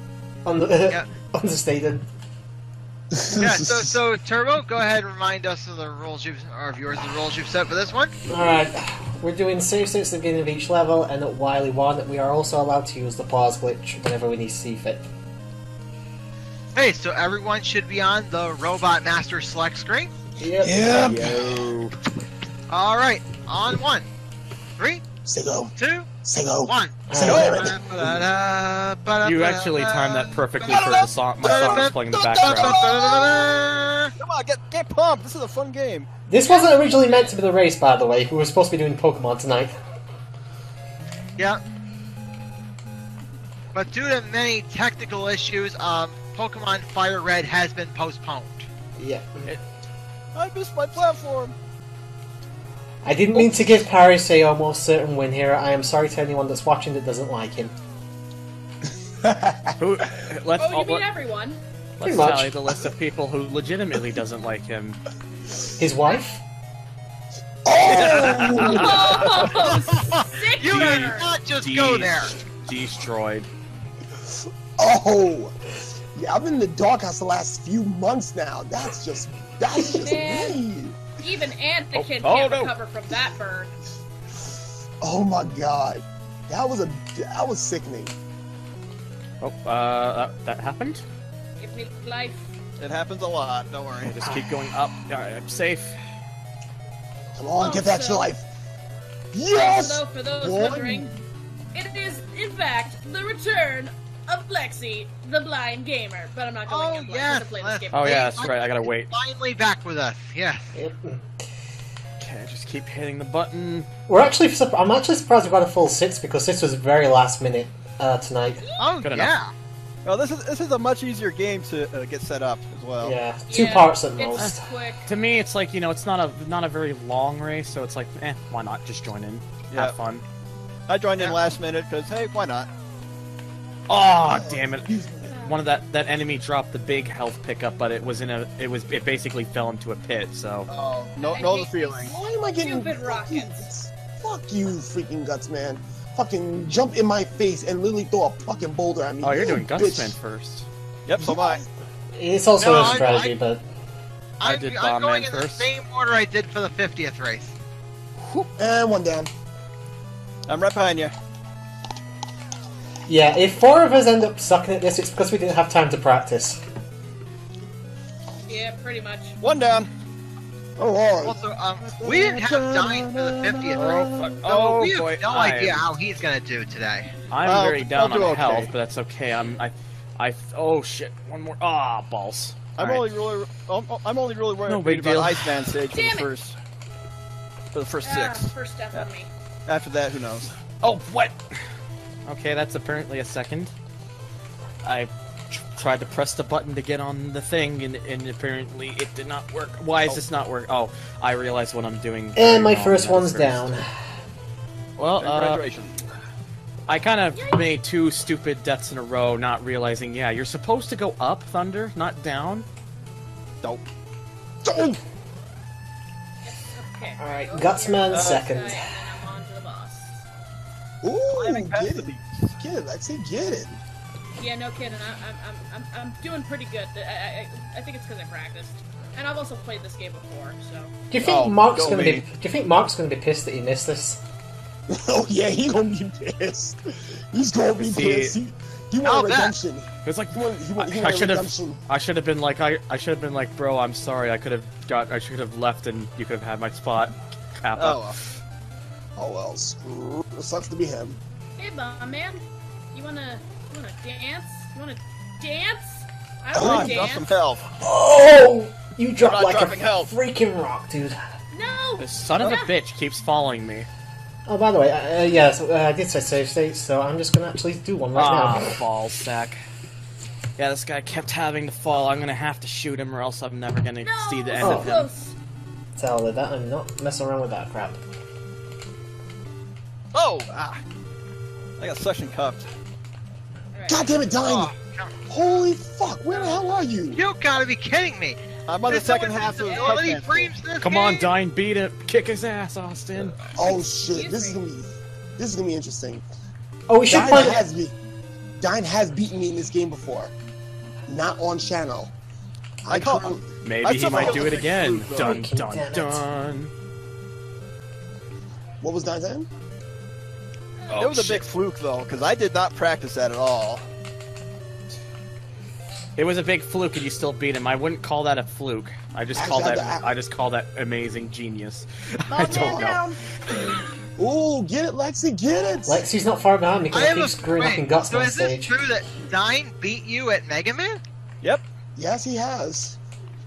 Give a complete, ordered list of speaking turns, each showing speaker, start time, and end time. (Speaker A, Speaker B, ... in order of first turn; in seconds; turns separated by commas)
Speaker A: 0.4-2.0, Speaker B: 3.1-4.0, Speaker C: 3.4-8.2, Speaker A: 8.2-15.1, Speaker C: 16.7-20.1, Speaker A: 20.4-20.8, Speaker B: 20.6-21.7, Speaker D: 20.8-21.9, Speaker C: 22.7-24.1, Speaker C: 24.8-25.0, Speaker B: 25.2-28.0, Speaker C: 25.8-26.1, Speaker C: 26.6-34.1, Speaker A: 27.1-27.6, Speaker E: 27.2-28.2, Speaker D: 29.2-32.8, Speaker E: 31.5-31.8, Speaker B: 32.4-33.3, Speaker E: 34.2-36.1, Speaker A: 36.3-39.7, Speaker F: 36.4-37.2, Speaker C: 43.7-48.7, Speaker A: 49.0-49.5, Speaker E: 50.3-51.5, Speaker A: 53.0-57.7, Speaker B: 59.2-59.8, Speaker D: 59.8-61.1, Speaker F: 60.6-61.6, Speaker D: 62.0-65.0, Speaker A: 62.0-62.7, Speaker A: 65.8-66.4, Speaker B: 67.6-69.5, Speaker D: 67.8-69.2, Speaker F: 68.5-71.4, Speaker C: 69.2-72.3, Speaker D: 70.7-73.5, Speaker B: 74.3-81.1, Speaker F: 79.9-80.6, Speaker F: 81.2-83.7, Speaker D: 81.9-82.7, Speaker B: 85.0-88.2, Speaker D: 89.4-91.0, Speaker F: 91.6-92.5, Speaker E: 92.8-94.2, Speaker D: 94.1-96.0, Speaker A: 94.2-94.7, Speaker B: 97.3-98.4, Speaker F: 97.6-98.3, Speaker B: 99.3-101.1, Speaker F: 99.5-101.1, Speaker F: 101.7-108.5, Speaker C: 106.7-110.7, Speaker D: 107.9-109.1, Speaker A: 110.7-111.4, Speaker D: 112.2-113.9, Speaker A: 114.1-118.6, Speaker F: 118.6-118.9, Speaker C: 118.8-119.5, Speaker D: 119.0-119.3, Speaker E: 120.0-123.2, Speaker A: 123.0-124.6, Speaker F: 123.5-125.1, Speaker D: 124.3-130.2, Speaker E: 130.9-132.7, Speaker D: 133.9-140.7, Speaker B: 134.2-135.3, Speaker F: 135.2-135.6, Speaker E: 140.7-142.1, Speaker F: 141.3-143.7, Speaker B: 142.1-150.1, Speaker D: 149.2-150.7, Speaker E: 151.1-151.6, Speaker B: 151.2-151.7, Speaker A: 152.1-153.6, Speaker C: 152.6-153.3, Speaker C: 154.4-157.5, Speaker D: 154.4-155.7, Speaker D: 158.2-158.5, Speaker B: 158.6-159.3, Speaker E: 160.5-161.1, Speaker A: 163.1-166.6, Speaker F: 168.5-169.4, Speaker E: 169.4-169.9, Speaker B: 170.8-174.3, Speaker C: 171.2-177.1, Speaker D: 173.7-175.8, Speaker D: 177.3-183.1, Speaker E: 177.4-178.7, Speaker E: 182.8-186.5, Speaker D: 184.7-185.7, Speaker F: 185.8-186.3, Speaker E: 187.7-189.0, Speaker F: 188.0-189.3, Speaker E: 189.7-190.5, Speaker D: 190.8-191.6, Speaker D: 192.2-193.7, Speaker D: 194.8-203.8, Speaker A: 202.3-203.9, Speaker D: 205.0-205.6, Speaker E: 205.2-206.0, Speaker D: 206.9-212.7, Speaker F: 207.3-207.7, Speaker B: 214.6-215.0, Speaker F: 216.4-220.2, Speaker A: 217.2-219.0, Speaker E: 218.1-218.5, Speaker B: 221.0-223.8, Speaker E: 221.3-222.5, Speaker F: 224.4-230.9, Speaker A: 231.1-234.2, Speaker E: 231.2-232.2, Speaker B: 234.9-241.8, Speaker D: 237.8-238.4, Speaker C: 239.0-239.5, Speaker D: 240.0-248.0, Speaker E: 247.8-248.2, Speaker B: 249.2-251.2, Speaker F: 251.6-252.4, Speaker F: 252.9-257.4, Speaker E: 256.5-257.7, Speaker B: 256.5-256.9, Speaker A: 257.8-261.2, Speaker E: 259.2-260.1, Speaker F: 261.5-262.7, Speaker D: 262.0-263.9, Speaker A: 264.4-268.8, Speaker D: 268.1-269.6, Speaker D: 270.6-275.1, Speaker F: 274.0-275.3, Speaker A: 274.6-274.9, Speaker A: 275.9-278.0, Speaker E: 280.1-280.8, Speaker E: 281.8-282.6, Speaker F: 283.7-284.1, Speaker B: 283.9-284.7, Speaker C: 284.4-285.1, Speaker B: 285.3-287.2, Speaker F: 286.3-286.7, Speaker C: 287.1-291.3, Speaker E: 288.7-290.5, Speaker F: 289.5-290.0, Speaker D: 290.8-293.4, Speaker B: 293.6-296.2, Speaker F: 293.6-294.6, Speaker A: 296.9-297.6, Speaker B: 297.1-297.9, Speaker B: 298.6-300.3, Speaker B: 301.1-302.1, Speaker B: 302.8-303.5, Speaker E: 302.9-305.4, Speaker D: 303.6-306.7, Speaker B: 304.1-304.5, Speaker A: 305.2-306.2, Speaker B: 308.8-309.5, Speaker E: 310.9-313.8, Speaker D: 310.9-311.4, Speaker D: 316.2-323.0, Speaker B: 319.4-320.1, Speaker F: 322.3-323.2, Speaker A: 322.6-322.9, Speaker B: 324.2-326.0, Speaker A: 325.9-328.7, Speaker C: 326.9-331.0, Speaker B: 331.9-333.0